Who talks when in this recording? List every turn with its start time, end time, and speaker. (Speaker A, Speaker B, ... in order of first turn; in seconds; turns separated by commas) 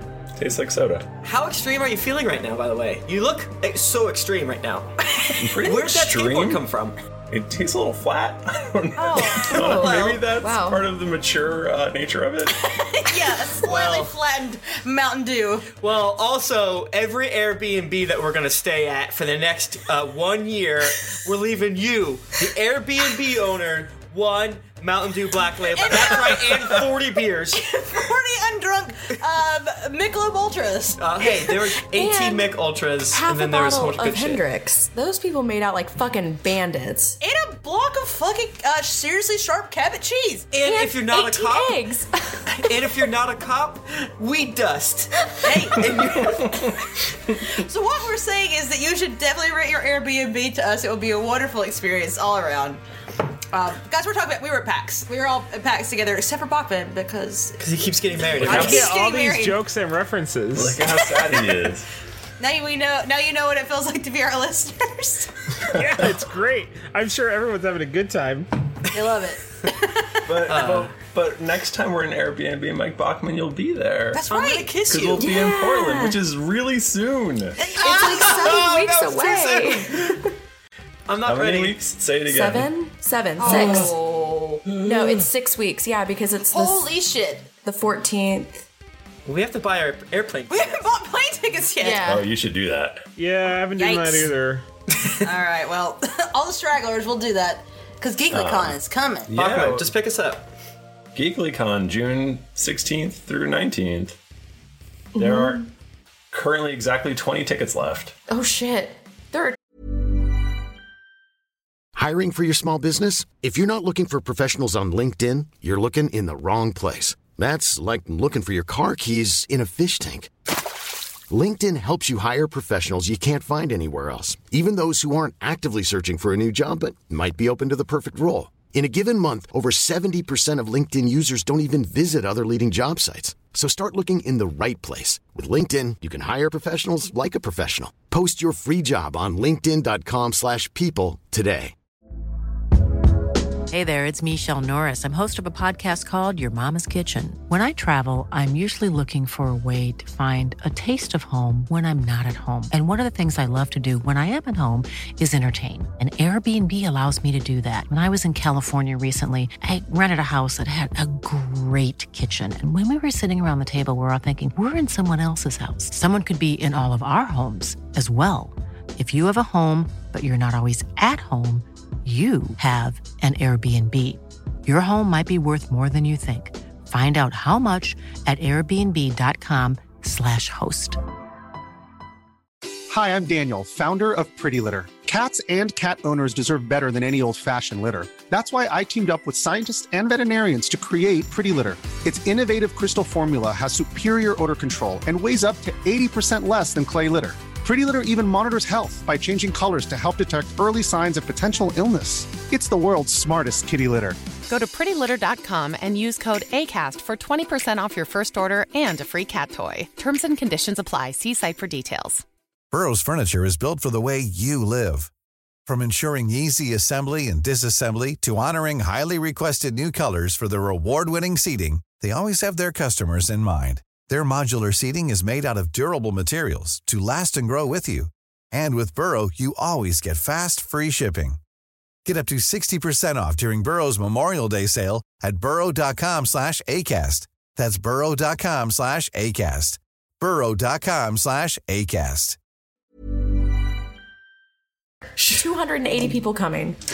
Speaker A: 0.4-1.1, Speaker B: 1.2-5.0, Speaker C: 5.1-5.4, Speaker A: 5.4-6.6, Speaker B: 5.6-7.0, Speaker A: 7.3-12.7, Speaker C: 9.0-9.8, Speaker D: 9.5-10.9, Speaker B: 9.8-10.2, Speaker C: 12.7-15.7, Speaker B: 13.6-14.1, Speaker B: 15.8-27.6, Speaker C: 25.7-26.8, Speaker C: 27.5-31.6, Speaker B: 31.0-34.4, Speaker D: 31.9-32.5, Speaker D: 33.1-37.2, Speaker C: 37.2-40.5, Speaker B: 40.5-41.8, Speaker D: 40.6-42.9, Speaker B: 42.5-46.5, Speaker C: 45.4-46.3, Speaker A: 45.8-47.4, Speaker C: 47.4-52.8, Speaker C: 53.5-57.6, Speaker B: 57.6-58.9, Speaker A: 58.4-58.8, Speaker C: 58.4-59.6, Speaker E: 58.4-60.9, Speaker A: 60.5-61.9, Speaker C: 62.4-65.3, Speaker E: 65.7-68.5, Speaker C: 68.9-70.6, Speaker A: 70.3-74.2, Speaker B: 70.5-70.9, Speaker C: 74.1-74.8, Speaker B: 74.3-75.3, Speaker A: 74.9-77.8, Speaker D: 75.2-76.2, Speaker C: 77.6-78.3, Speaker D: 77.8-80.3, Speaker B: 77.8-80.2, Speaker B: 81.1-81.8, Speaker A: 81.2-82.7, Speaker D: 82.2-83.9, Speaker C: 83.4-84.7, Speaker A: 83.5-83.9, Speaker A: 84.7-85.1, Speaker D: 84.8-86.9, Speaker C: 86.5-87.5, Speaker D: 87.6-88.6, Speaker B: 89.3-90.9, Speaker C: 90.5-92.2, Speaker D: 91.8-92.3, Speaker A: 92.0-93.1, Speaker E: 93.2-94.7, Speaker C: 93.8-94.3, Speaker C: 95.2-99.3, Speaker A: 98.3-99.9, Speaker B: 99.3-100.5, Speaker A: 101.2-104.2, Speaker D: 105.2-105.7, Speaker A: 105.2-105.7, Speaker A: 106.3-108.1, Speaker D: 108.3-109.6, Speaker F: 112.0-120.3, Speaker F: 121.3-141.7, Speaker G: 143.7-181.0, Speaker H: 182.9-204.2, Speaker I: 204.5-212.2, Speaker J: 212.7-215.1, Speaker J: 215.7-231.4, Speaker J: 232.1-242.4, Speaker D: 245.3-246.8